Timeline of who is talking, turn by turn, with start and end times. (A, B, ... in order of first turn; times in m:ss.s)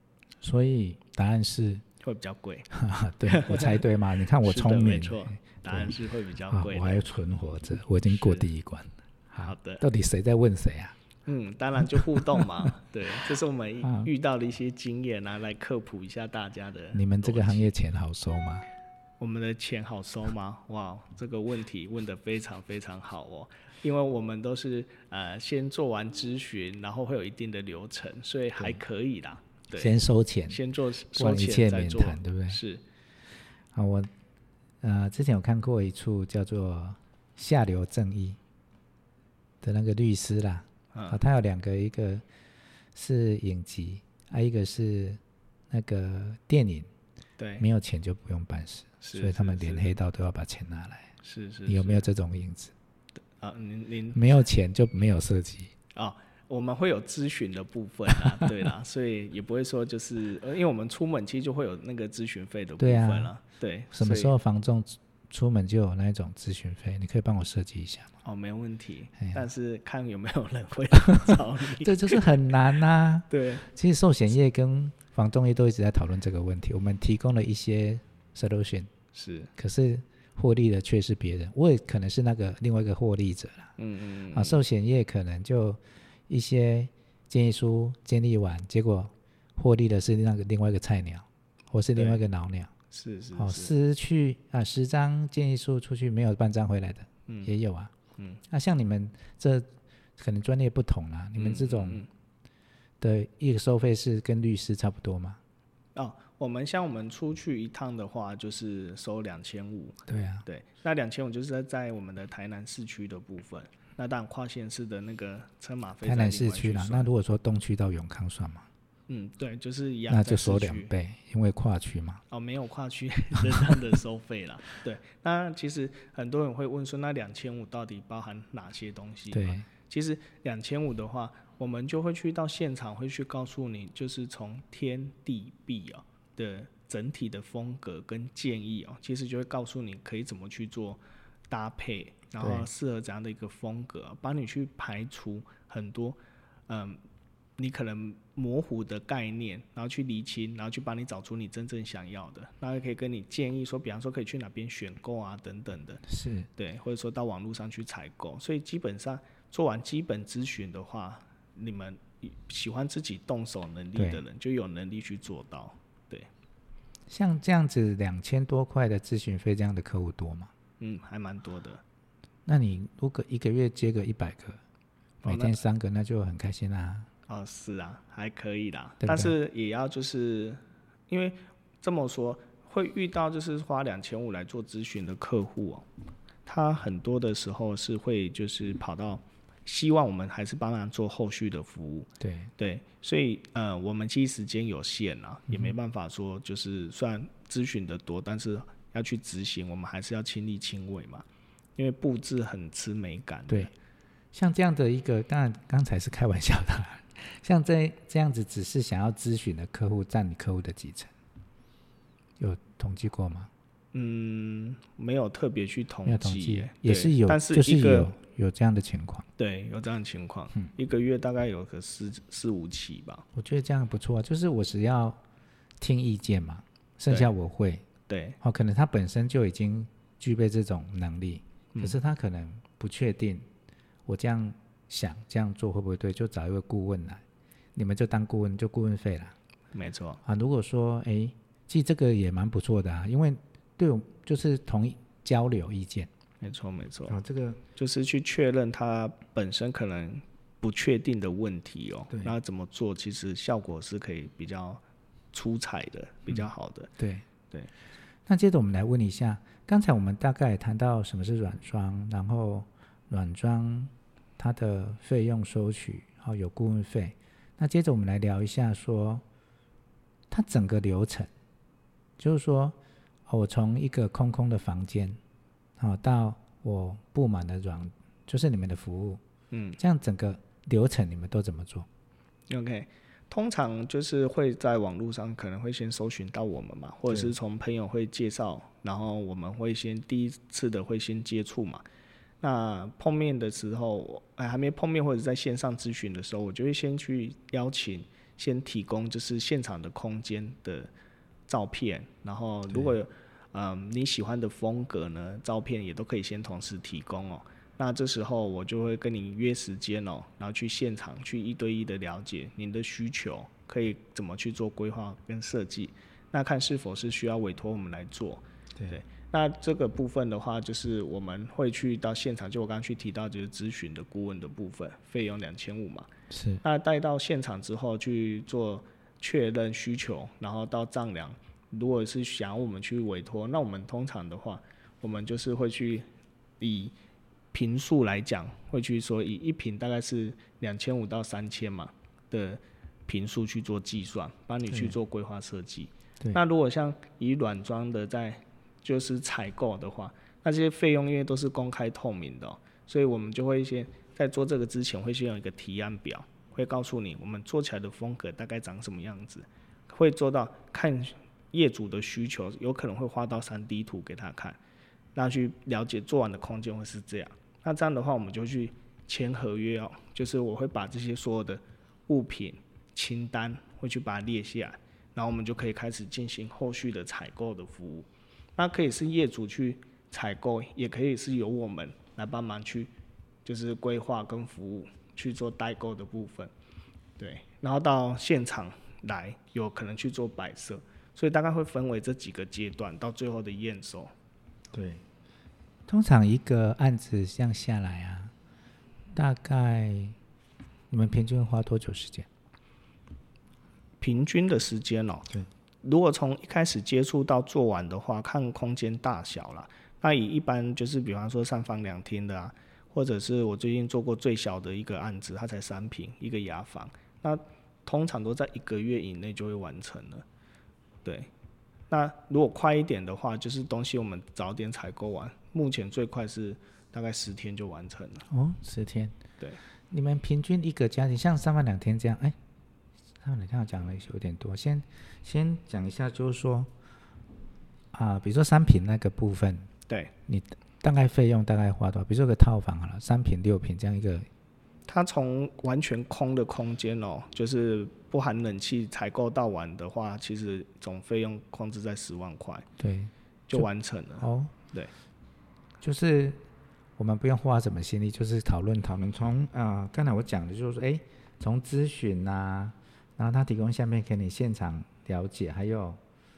0:00.4-0:01.8 A
0:02.0-0:02.7 B
0:02.7-0:05.9 A
0:03.3-0:03.8 B
0:04.4-0:07.0 B
0:06.5-0:11.0 A
0:08.1-0:08.4 B
0:09.4-0:09.8 B
0:11.3-0:17.7 B
0:12.0-0:12.5 A
0:13.8-0:14.1 A
0:16.9-0:18.6 A
0:19.2-0:30.0 B
0:29.8-0:30.6 A
0:30.5-0:32.8 B
0:31.2-0:32.6 A
0:33.7-0:34.1 A
0:34.8-0:38.4 A
0:39.6-0:42.2 A
0:40.9-0:41.2 B
0:43.0-0:46.9 A
0:47.4-0:47.7 B
0:47.6-0:51.1 A
0:49.0-0:49.9 B
0:51.2-0:52.1 B
0:51.7-0:52.7 A
0:53.3-0:54.3 B
0:54.1-0:55.7 A
0:55.9-1:04.3 B
1:02.8-1:03.3 A
1:03.9-1:08.1 A
1:08.2-1:12.3 B
1:11.1-1:18.9 A
1:13.3-1:13.7 B
1:19.1-1:19.5 B
1:19.6-1:23.7 A
1:23.8-1:24.6 B
1:24.3-1:32.7 A
1:32.0-1:32.2 B
1:32.9-1:33.7 B
1:33.4-1:37.9 A
1:37.3-1:37.5 B
1:38.5-1:42.0 A
1:41.4-1:42.1 B
1:43.0-1:45.4 A
1:46.0-1:57.1 B
1:50.1-1:50.4 A
1:56.0-1:58.7 A
1:59.1-2:00.9 B
2:00.1-2:02.2 A
2:02.3-2:26.2 B
2:03.4-2:03.8 A
2:09.3-2:09.7 A
2:22.4-2:22.7 A
2:26.7-2:27.0 B
2:27.6-2:36.0 B
2:36.1-2:36.5 A
2:36.6-2:46.3 B
2:44.0-2:44.2 A
2:47.1-2:50.5 A
2:50.8-2:51.8 B
2:52.5-2:54.6 A
2:55.2-2:55.6 B
2:55.2-2:57.1 A
2:57.3-3:05.9 B
2:59.0-2:59.3 A
3:06.5-3:21.3 B
3:12.2-3:12.5 A
3:15.5-3:15.7 A
3:21.8-3:23.7 B
3:24.3-3:31.1 A
3:32.4-3:33.5 A
3:33.9-3:38.1 B
3:36.0-3:39.3 A
3:39.4-3:43.2 B
3:43.4-3:45.2 A
3:45.8-3:47.8 A
3:48.1-3:48.4 B
3:48.4-3:53.5 A
3:54.1-3:57.2 A
3:57.8-3:59.4 A
3:59.7-4:00.2 B
4:00.2-4:06.1 A
4:06.4-4:07.2 B
4:07.1-4:07.6 A
4:07.8-4:14.8 B
4:15.3-4:16.9 B
4:17.0-4:17.3 A
4:18.3-4:29.2 A
4:30.3-4:31.3 A
4:32.2-4:32.8 A
4:33.3-4:35.2 A
4:35.8-4:39.2 A
4:39.5-4:39.8 B
4:39.8-4:41.9 A
4:42.5-4:51.8 B
4:52.4-5:00.9 B
5:01.5-5:26.1 B
5:26.3-5:26.6 A
5:26.6-5:36.1 B
5:36.6-5:37.0 B
5:37.5-6:04.6 B
5:44.7-5:45.0 A
6:05.2-6:22.9 B
6:23.4-6:26.5 B
6:27.2-6:34.1 B
6:34.7-6:35.0 A
6:35.9-6:38.3 A
6:39.1-6:40.2 A
6:40.9-6:42.3 A
6:44.0-6:45.3 B
6:45.8-7:00.2 B
7:01.0-7:01.3 B
7:01.9-7:08.3 B
7:08.3-7:09.2 A
7:09.9-7:12.4 A
7:13.2-7:16.7 A
7:17.9-7:19.7 A
7:20.3-7:24.3 A
7:24.9-7:32.7 B
7:32.8-7:33.7 A
7:33.5-7:34.9 B
7:34.2-7:34.5 A
7:35.8-7:36.4 A
7:37.0-7:46.0 A